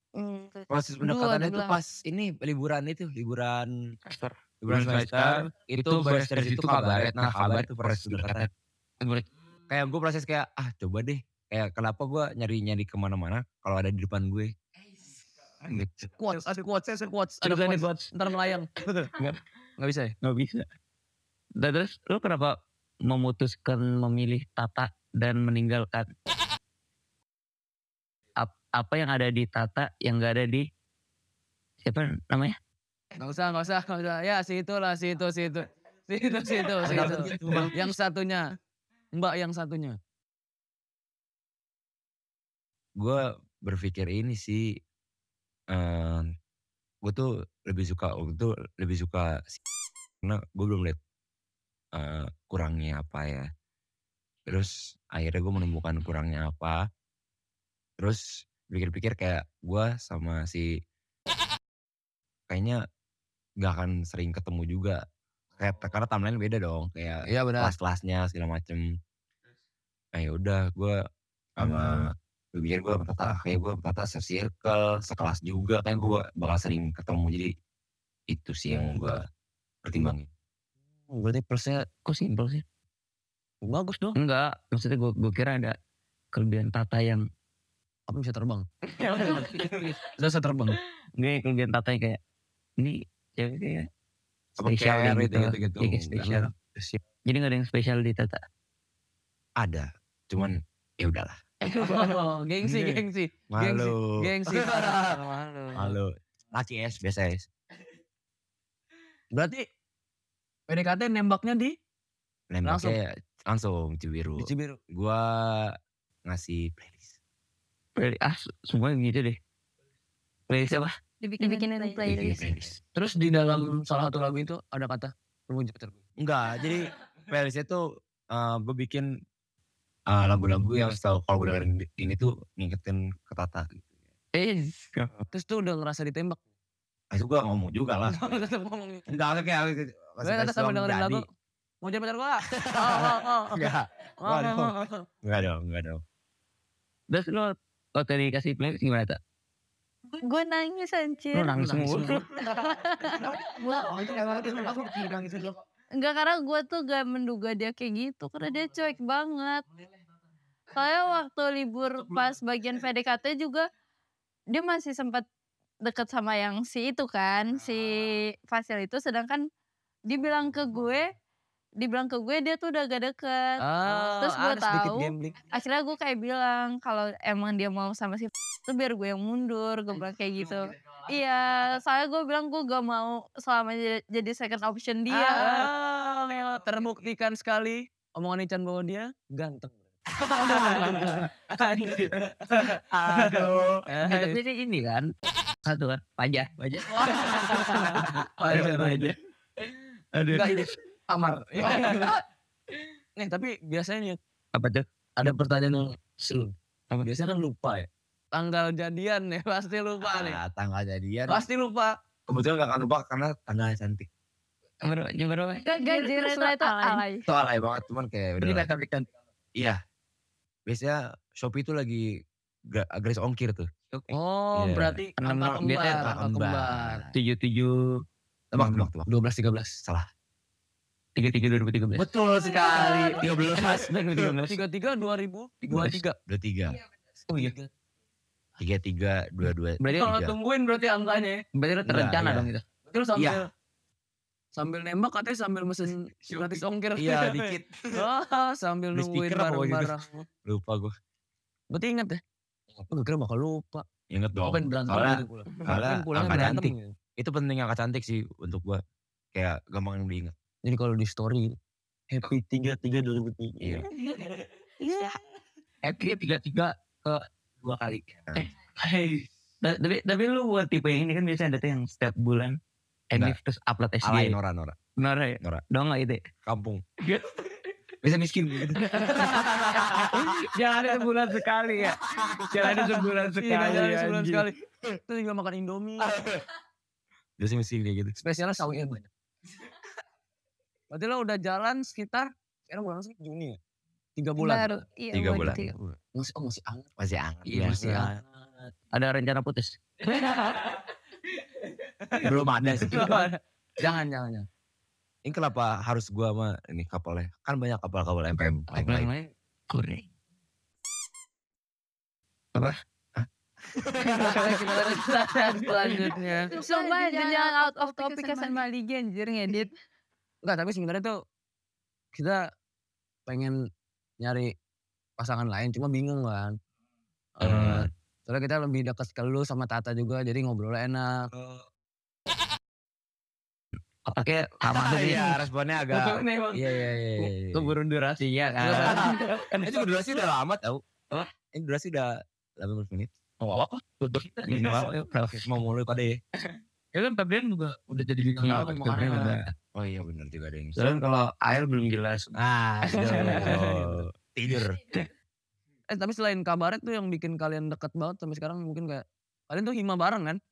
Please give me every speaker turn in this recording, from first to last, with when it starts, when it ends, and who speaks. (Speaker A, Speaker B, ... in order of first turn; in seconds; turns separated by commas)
Speaker A: 0.2-1.8, Speaker B: 0.7-3.7, Speaker C: 4.1-8.5, Speaker B: 4.6-8.5, Speaker C: 9.0-9.2, Speaker B: 9.7-14.5, Speaker D: 16.2-19.1, Speaker C: 17.4-18.1, Speaker D: 19.8-20.1, Speaker C: 20.2-20.6, Speaker C: 21.6-26.1, Speaker C: 28.4-30.7, Speaker C: 31.8-32.6, Speaker D: 33.2-38.5, Speaker C: 36.8-37.7, Speaker B: 36.8-37.7, Speaker D: 39.1-40.0, Speaker B: 43.0-44.8, Speaker B: 45.7-46.2, Speaker B: 47.0-49.6, Speaker B: 50.2-51.0, Speaker B: 51.9-53.5, Speaker B: 54.5-56.8, Speaker B: 58.0-60.8, Speaker B: 62.5-62.8, Speaker B: 63.6-65.0, Speaker B: 65.6-68.9, Speaker D: 67.2-67.7, Speaker B: 70.1-71.0, Speaker B: 71.6-77.5, Speaker B: 78.3-79.2, Speaker B: 79.8-80.3, Speaker D: 81.1-81.9, Speaker C: 82.0-82.6, Speaker D: 83.6-84.2, Speaker C: 84.1-85.8, Speaker C: 86.3-87.3, Speaker D: 88.1-88.7, Speaker C: 88.9-90.0, Speaker D: 90.2-90.8, Speaker C: 91.2-92.2, Speaker C: 92.8-93.9, Speaker B: 94.6-96.3, Speaker C: 94.6-96.5, Speaker D: 96.1-97.0, Speaker C: 97.2-98.4, Speaker B: 99.6-101.4, Speaker D: 101.6-105.2, Speaker B: 102.7-102.9, Speaker B: 103.5-105.2, Speaker C: 105.1-105.9, Speaker B: 105.7-107.5, Speaker D: 109.3-109.7, Speaker D: 110.7-111.8, Speaker B: 112.5-115.7, Speaker D: 112.6-113.0, Speaker D: 114.4-114.8, Speaker B: 116.2-117.1, Speaker C: 118.0-119.4, Speaker C: 120.5-120.9, Speaker E: 121.2-122.0, Speaker A: 121.4-122.5, Speaker B: 122.0-122.8, Speaker D: 122.9-126.0, Speaker B: 126.2-129.1, Speaker B: 130.1-133.9, Speaker C: 134.3-135.2, Speaker D: 135.3-136.4, Speaker B: 137.1-138.4, Speaker D: 138.1-139.1, Speaker B: 139.1-141.2, Speaker D: 140.2-141.3, Speaker D: 141.8-143.7, Speaker B: 142.5-146.0, Speaker D: 144.2-145.1, Speaker C: 147.1-149.2, Speaker A: 150.2-151.6, Speaker C: 151.3-152.2, Speaker D: 151.6-152.2, Speaker A: 152.5-153.2, Speaker D: 153.7-155.4, Speaker A: 155.9-159.6, Speaker A: 160.7-163.7, Speaker A: 164.5-165.2, Speaker A: 165.8-169.4, Speaker A: 170.1-171.1, Speaker A: 171.8-185.7, Speaker D: 173.6-175.4, Speaker D: 185.1-194.4, Speaker B: 192.9-193.8, Speaker C: 194.0-195.1, Speaker C: 195.6-199.2, Speaker D: 196.9-199.1, Speaker C: 200.1-200.7, Speaker D: 200.3-202.2, Speaker C: 201.6-202.1, Speaker D: 203.2-204.2, Speaker C: 204.5-204.8, Speaker D: 205.2-210.4, Speaker B: 210.0-211.4, Speaker D: 211.3-212.0, Speaker B: 212.3-214.1, Speaker C: 214.8-215.7, Speaker A: 215.6-217.2, Speaker E: 215.7-217.0, Speaker B: 217.2-218.7, Speaker C: 218.4-219.1, Speaker B: 220.7-222.2, Speaker B: 222.7-223.7, Speaker D: 224.1-227.0, Speaker B: 224.5-225.0, Speaker C: 225.2-226.1, Speaker B: 225.9-227.1, Speaker C: 227.1-228.0, Speaker B: 228.5-229.1, Speaker C: 228.5-228.9, Speaker D: 229.1-229.8, Speaker C: 231.2-232.0, Speaker B: 231.9-234.3, Speaker C: 233.5-234.6, Speaker D: 234.5-236.2, Speaker C: 235.6-236.0, Speaker B: 236.3-236.8, Speaker D: 237.3-237.7, Speaker B: 238.6-240.4, Speaker C: 239.8-240.2, Speaker D: 239.9-241.4, Speaker C: 241.5-242.6, Speaker B: 241.8-242.5, Speaker D: 242.8-243.5, Speaker B: 243.1-243.4, Speaker D: 244.5-250.3, Speaker B: 246.9-248.1, Speaker B: 248.9-250.9, Speaker D: 251.7-252.2, Speaker D: 252.9-253.9, Speaker B: 254.1-258.8, Speaker D: 254.4-256.9, Speaker B: 259.3-260.3, Speaker D: 260.6-261.6, Speaker D: 262.1-263.6, Speaker C: 262.2-264.3, Speaker B: 263.6-263.9, Speaker C: 264.8-265.2, Speaker C: 265.8-272.6, Speaker C: 273.1-274.4, Speaker B: 274.0-274.8, Speaker C: 275.0-276.2, Speaker B: 276.4-276.8, Speaker C: 277.0-277.5, Speaker B: 278.0-278.8, Speaker C: 278.7-284.5, Speaker D: 279.0-280.0, Speaker B: 279.6-280.3, Speaker D: 280.5-281.9, Speaker B: 282.2-282.7, Speaker D: 282.6-284.5, Speaker D: 285.1-286.1, Speaker B: 286.0-286.4, Speaker B: 287.4-288.1, Speaker D: 288.2-289.1, Speaker D: 290.9-293.6, Speaker D: 294.1-294.8, Speaker A: 294.4-295.7, Speaker B: 295.1-295.8, Speaker D: 296.1-296.9, Speaker B: 297.0-298.1, Speaker D: 297.5-298.7, Speaker C: 297.5-298.1, Speaker C: 298.9-300.8, Speaker B: 302.2-303.2, Speaker D: 302.8-304.5, Speaker B: 305.2-309.1, Speaker C: 308.7-310.1, Speaker B: 313.1-314.9, Speaker D: 314.0-316.5, Speaker E: 316.5-318.6, Speaker A: 316.5-319.7, Speaker D: 320.4-321.2, Speaker D: 322.1-322.4, Speaker D: 323.3-323.6, Speaker D: 324.2-324.5, Speaker D: 325.2-326.6, Speaker D: 327.4-331.3, Speaker B: 327.4-327.9, Speaker B: 331.3-331.6, Speaker C: 334.0-339.9, Speaker B: 334.7-337.8, Speaker D: 338.6-339.1, Speaker B: 338.7-340.8, Speaker B: 341.5-343.1, Speaker C: 343.4-345.5, Speaker B: 344.5-346.2, Speaker C: 346.9-349.5, Speaker D: 348.4-349.4, Speaker B: 349.7-350.8, Speaker C: 350.8-352.3, Speaker B: 352.3-354.8, Speaker C: 352.9-353.6, Speaker D: 353.0-354.0, Speaker D: 355.9-360.4